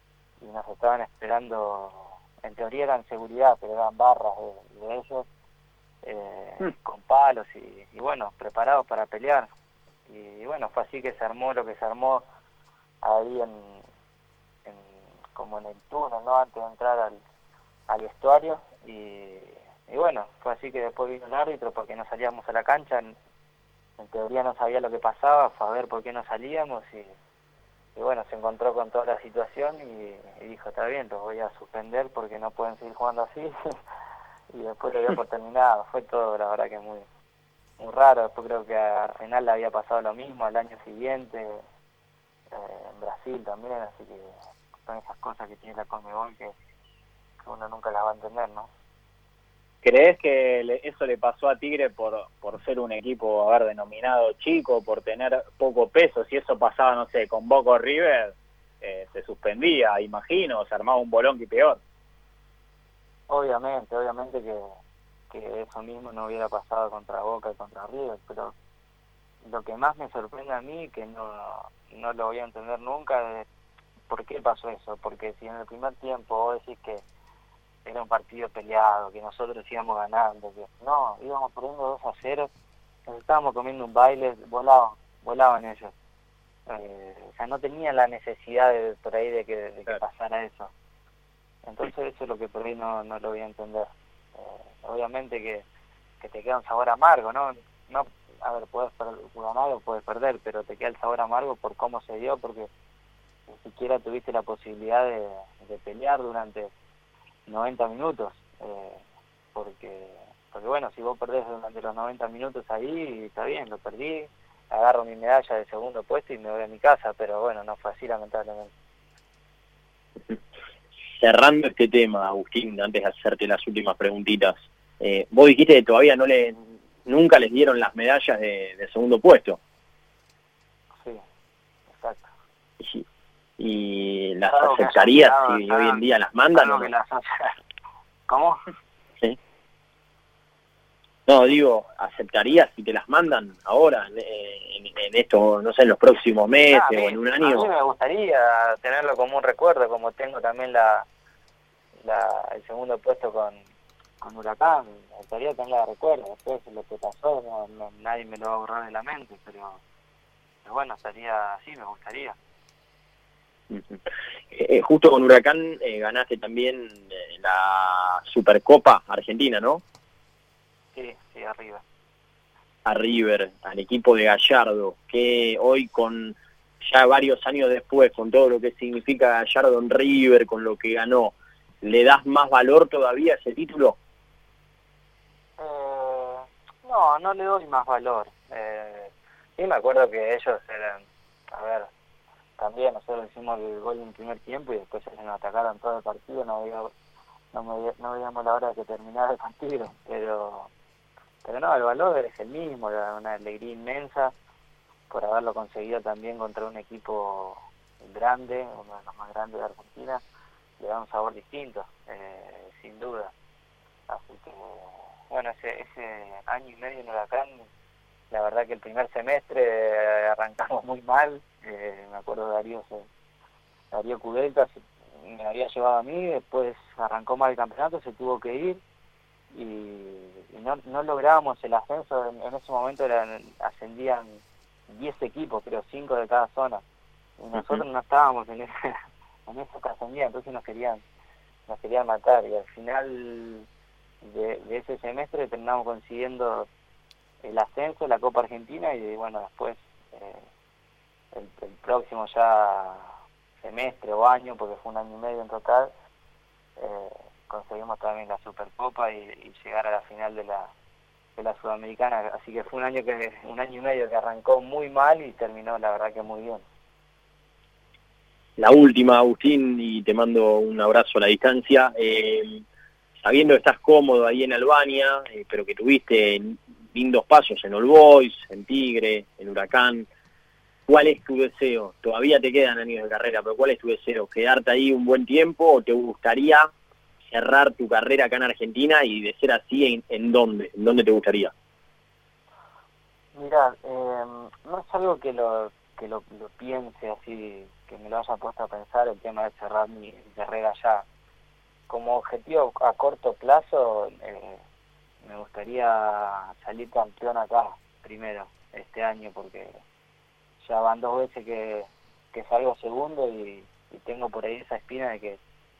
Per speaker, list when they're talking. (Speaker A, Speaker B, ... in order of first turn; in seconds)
Speaker A: 0.4-5.3, 6.0-9.5, 10.1-12.2, 13.0-13.8, 14.6-17.2, 17.9-23.1, 24.0-27.1, 27.9-33.8, 34.5-37.0, 37.8-41.6, 42.5-44.3, 44.9-46.5, 47.4-48.7, 63.3-64.7, 65.3-68.5, 69.4-73.5, 74.1-77.0, 77.8-82.5, 83.1-85.9, 86.7-90.7, 91.6-95.6, 96.2-102.7, 103.5-106.7, 107.5-109.0, 109.5-118.7, 131.9-132.3, 134.5-136.0, 136.5-137.5, 138.3-138.6, 146.7-151.1, 152.0-153.6, 154.2-159.8, 160.6-162.4, 170.9-171.8, 185.6-191.9, 192.6-196.9, 197.5-200.7, 201.4-204.3, 205.1-210.2, 210.8-213.3, 214.1-217.6, 218.3-223.1, 223.9-228.8, 229.5-236.8, 237.4-238.9, 239.5-241.0, 241.7-243.7, 244.2-246.7, 247.4-250.4, 251.3-255.9, 256.8-260.7, 261.4-266.6, 293.3-301.0, 301.9-304.6, 305.2-309.8, 310.6-315.4
Speaker B: 49.8-61.8
Speaker C: 121.2-129.6, 132.8-133.0, 133.6-136.9, 141.3-147.7, 163.7-169.8, 172.8-183.9, 237.5-237.8, 268.6-272.6, 273.2-280.1, 280.9-286.7, 287.3-291.5